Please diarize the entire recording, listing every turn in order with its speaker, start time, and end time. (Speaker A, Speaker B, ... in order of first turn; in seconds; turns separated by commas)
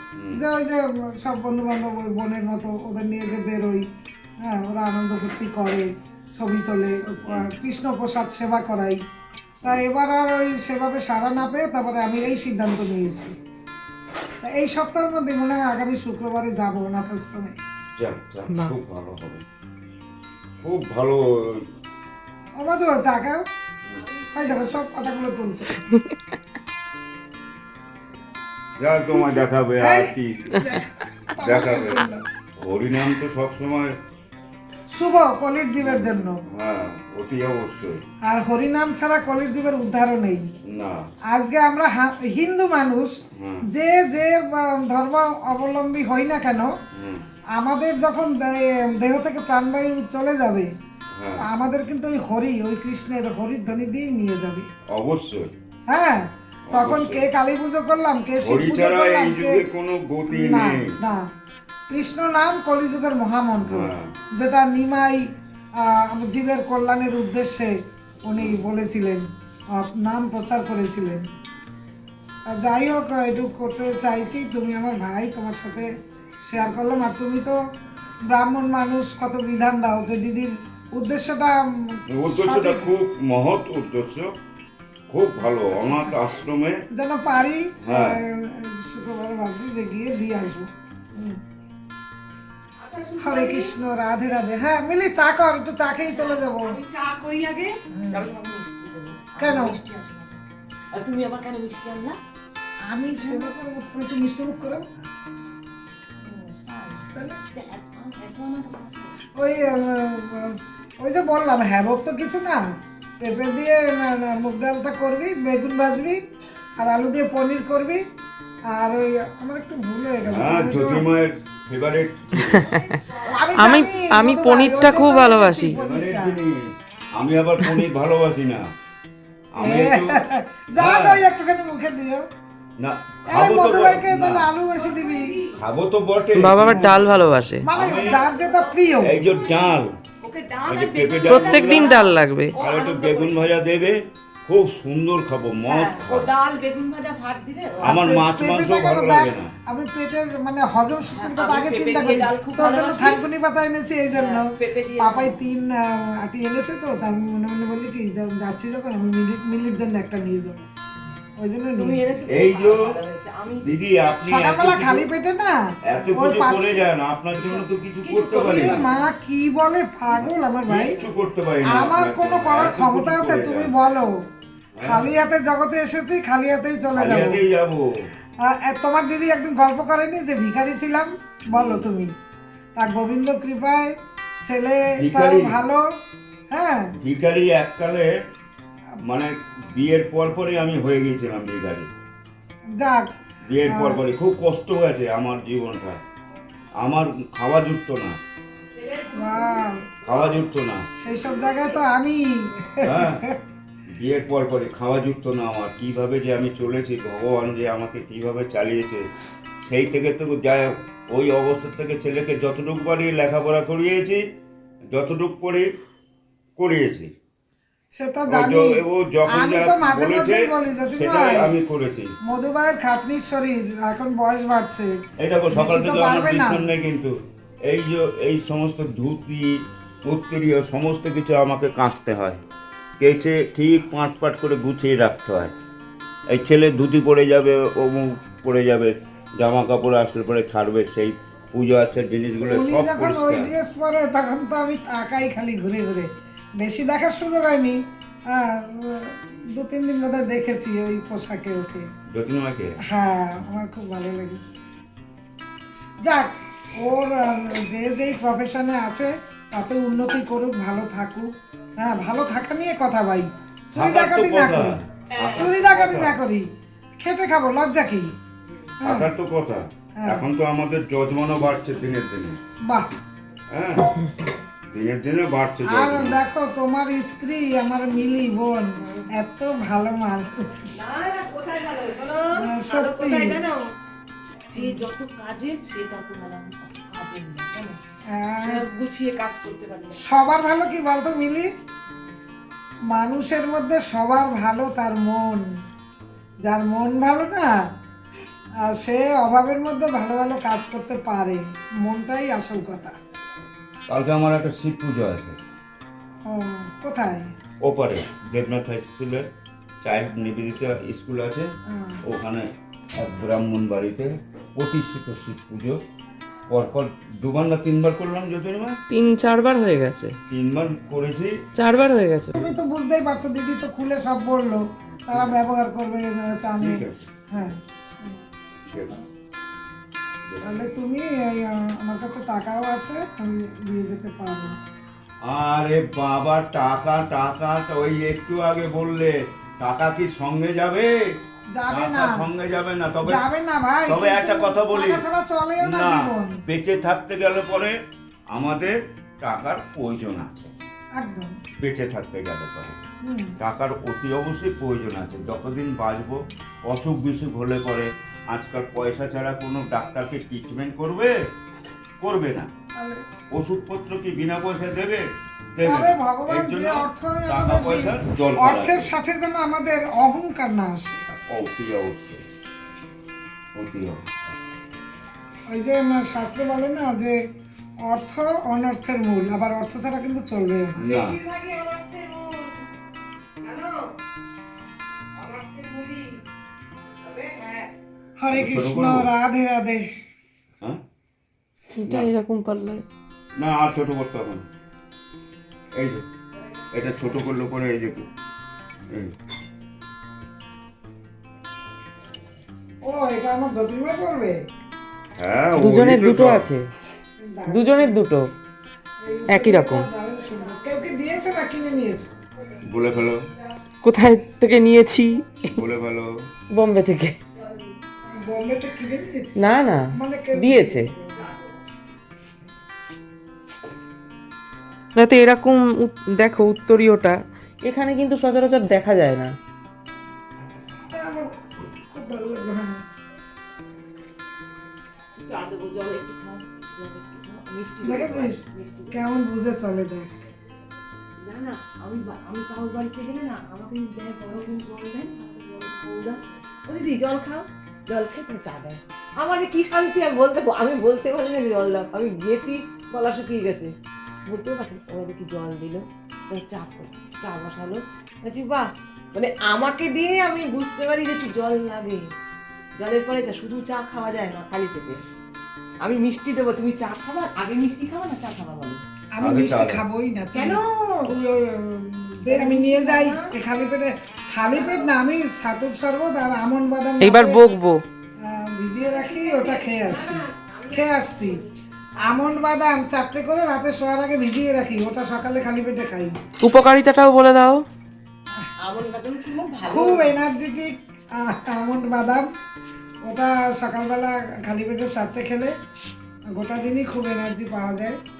Speaker A: 0.4-3.8, Speaker A: 4.4-9.0, Speaker A: 9.6-13.3, Speaker A: 14.4-17.6, Speaker B: 18.0-19.4, Speaker B: 20.6-21.6, Speaker A: 22.6-23.4, Speaker A: 24.3-25.7, Speaker C: 25.9-26.1, Speaker B: 28.8-30.6, Speaker A: 29.8-32.2, Speaker B: 31.4-32.0, Speaker B: 32.6-33.9, Speaker A: 34.9-36.4, Speaker B: 35.8-38.0, Speaker A: 38.2-40.5, Speaker B: 40.6-41.0, Speaker A: 41.3-43.2, Speaker B: 43.4-43.6, Speaker A: 43.7-46.7, Speaker B: 47.0-47.2, Speaker A: 47.5-50.7, Speaker B: 51.1-51.5, Speaker A: 51.4-54.7, Speaker B: 54.9-55.5, Speaker A: 55.9-59.6, Speaker B: 56.7-57.3, Speaker B: 58.4-61.0, Speaker A: 60.3-61.1, Speaker A: 61.9-65.2, Speaker B: 63.6-64.1, Speaker A: 65.8-71.2, Speaker A: 72.5-75.9, Speaker A: 76.4-77.6, Speaker A: 78.3-82.9, Speaker B: 82.1-84.3, Speaker B: 85.1-86.8, Speaker A: 86.9-91.4, Speaker B: 87.8-88.2, Speaker D: 92.8-93.8, Speaker A: 93.2-96.8, Speaker D: 96.0-100.4, Speaker A: 98.0-98.3, Speaker A: 99.4-99.8, Speaker D: 100.9-102.2, Speaker D: 102.9-103.5, Speaker A: 102.9-104.9, Speaker D: 106.2-109.2, Speaker A: 109.3-112.6, Speaker A: 113.2-116.2, Speaker A: 116.8-118.0, Speaker A: 118.7-121.0, Speaker B: 120.2-122.7, Speaker C: 122.3-123.0, Speaker D: 122.8-123.4, Speaker A: 123.2-126.4, Speaker C: 123.5-125.8, Speaker B: 125.7-128.6, Speaker B: 129.5-130.2, Speaker A: 129.6-132.2, Speaker B: 130.8-131.2, Speaker B: 132.8-134.5, Speaker A: 133.3-135.4, Speaker D: 134.8-135.5, Speaker B: 135.5-137.1, Speaker C: 136.3-137.7, Speaker A: 137.6-139.2, Speaker B: 137.7-138.2, Speaker D: 138.0-143.5, Speaker B: 139.0-139.9, Speaker B: 140.7-141.9, Speaker C: 141.2-142.6, Speaker B: 142.6-146.3, Speaker D: 145.6-148.0, Speaker A: 147.8-154.4, Speaker B: 147.8-149.5, Speaker D: 151.1-153.2, Speaker D: 154.1-155.4, Speaker A: 155.0-160.6, Speaker A: 161.4-162.3, Speaker D: 161.7-163.7, Speaker B: 162.3-162.9, Speaker B: 163.6-165.1, Speaker A: 164.2-165.5, Speaker B: 165.8-168.9, Speaker A: 166.1-166.8, Speaker D: 167.3-169.1, Speaker A: 168.4-171.0, Speaker B: 170.1-173.7, Speaker A: 171.6-174.1, Speaker B: 174.8-175.1, Speaker A: 174.8-177.4, Speaker B: 176.9-178.1, Speaker A: 178.4-182.1, Speaker B: 181.5-181.9, Speaker A: 182.8-185.8, Speaker B: 185.0-185.5, Speaker A: 186.5-186.9, Speaker B: 187.0-188.1, Speaker B: 189.0-191.9, Speaker A: 192.8-193.0, Speaker B: 193.5-196.0, Speaker A: 193.6-194.0, Speaker B: 196.8-198.2, Speaker D: 198.8-199.6, Speaker A: 199.1-199.8, Speaker B: 200.0-200.8, Speaker A: 201.0-203.3, Speaker B: 202.8-203.2, Speaker B: 203.9-209.1, Speaker B: 209.6-214.2, Speaker B: 214.9-215.7, Speaker B: 216.6-217.1, Speaker A: 217.9-221.5, Speaker B: 218.3-222.1, Speaker A: 222.2-224.9, Speaker B: 225.2-227.1, Speaker A: 225.5-226.7, Speaker B: 227.7-229.5, Speaker B: 230.0-232.4, Speaker B: 233.0-235.5, Speaker B: 236.3-243.5, Speaker A: 242.4-247.8, Speaker A: 248.3-251.8, Speaker B: 252.1-252.8, Speaker A: 252.9-254.5, Speaker A: 256.0-264.8, Speaker B: 263.7-266.1, Speaker D: 265.1-265.7, Speaker A: 265.4-266.4, Speaker A: 267.0-268.1, Speaker A: 268.8-269.1, Speaker B: 268.8-272.4, Speaker A: 270.0-270.3, Speaker B: 273.5-273.9, Speaker B: 274.7-276.2, Speaker A: 275.7-280.7, Speaker D: 280.8-283.7, Speaker A: 282.4-283.5, Speaker D: 284.5-287.8, Speaker A: 284.5-284.8, Speaker A: 288.1-288.6, Speaker D: 288.4-290.0, Speaker A: 290.0-291.5, Speaker A: 292.9-295.4, Speaker A: 296.4-297.5, Speaker A: 298.6-302.9, Speaker B: 303.9-305.4, Speaker A: 306.2-307.3, Speaker B: 307.6-309.2, Speaker B: 309.8-311.5, Speaker A: 311.7-312.0, Speaker B: 312.0-315.8, Speaker B: 316.5-318.8, Speaker C: 318.9-320.1, Speaker B: 320.3-321.3, Speaker C: 321.6-322.4, Speaker A: 322.4-328.2, Speaker B: 324.9-325.3, Speaker B: 326.6-327.0, Speaker B: 328.7-329.0, Speaker B: 330.3-330.6, Speaker A: 330.4-334.6, Speaker B: 335.2-340.9, Speaker A: 341.5-342.2, Speaker B: 341.7-343.2, Speaker A: 343.0-346.4, Speaker B: 343.9-345.0, Speaker B: 345.6-347.8, Speaker B: 348.3-350.6, Speaker A: 351.0-351.3, Speaker B: 351.6-352.8, Speaker A: 353.0-353.3, Speaker B: 353.4-361.1, Speaker B: 362.0-362.5, Speaker B: 363.3-368.9, Speaker A: 365.6-371.0, Speaker B: 371.3-372.2, Speaker B: 373.6-374.1, Speaker A: 375.5-377.1, Speaker A: 377.8-380.8, Speaker B: 380.8-381.2, Speaker D: 380.8-382.6, Speaker D: 383.4-383.8, Speaker D: 385.2-386.1, Speaker D: 387.1-387.7, Speaker A: 388.2-389.8, Speaker B: 388.3-389.1, Speaker C: 391.8-392.8, Speaker B: 393.4-394.4, Speaker B: 395.8-396.0, Speaker B: 396.7-398.1, Speaker A: 402.8-404.4, Speaker B: 405.2-406.5, Speaker C: 405.6-406.7, Speaker A: 407.2-408.0, Speaker C: 407.5-408.3, Speaker A: 409.0-412.1, Speaker C: 409.3-409.9, Speaker B: 412.6-413.2, Speaker C: 413.8-415.6, Speaker B: 415.6-416.1, Speaker C: 416.5-417.2, Speaker A: 418.2-421.2, Speaker C: 419.4-420.9, Speaker C: 424.9-429.3, Speaker A: 430.9-431.3, Speaker A: 431.9-432.8, Speaker D: 435.2-439.1, Speaker A: 437.8-440.1, Speaker D: 441.2-453.7, Speaker D: 454.3-462.1, Speaker D: 462.8-465.0, Speaker D: 465.8-468.8, Speaker A: 469.1-477.4, Speaker B: 469.2-469.8, Speaker D: 470.3-471.1, Speaker D: 472.2-473.3, Speaker D: 474.5-474.9, Speaker C: 477.0-477.8, Speaker A: 478.2-481.4, Speaker D: 478.8-481.4, Speaker A: 482.0-486.1, Speaker C: 486.4-487.6, Speaker D: 488.6-490.2, Speaker A: 489.6-492.3, Speaker A: 493.0-495.5, Speaker A: 496.3-497.9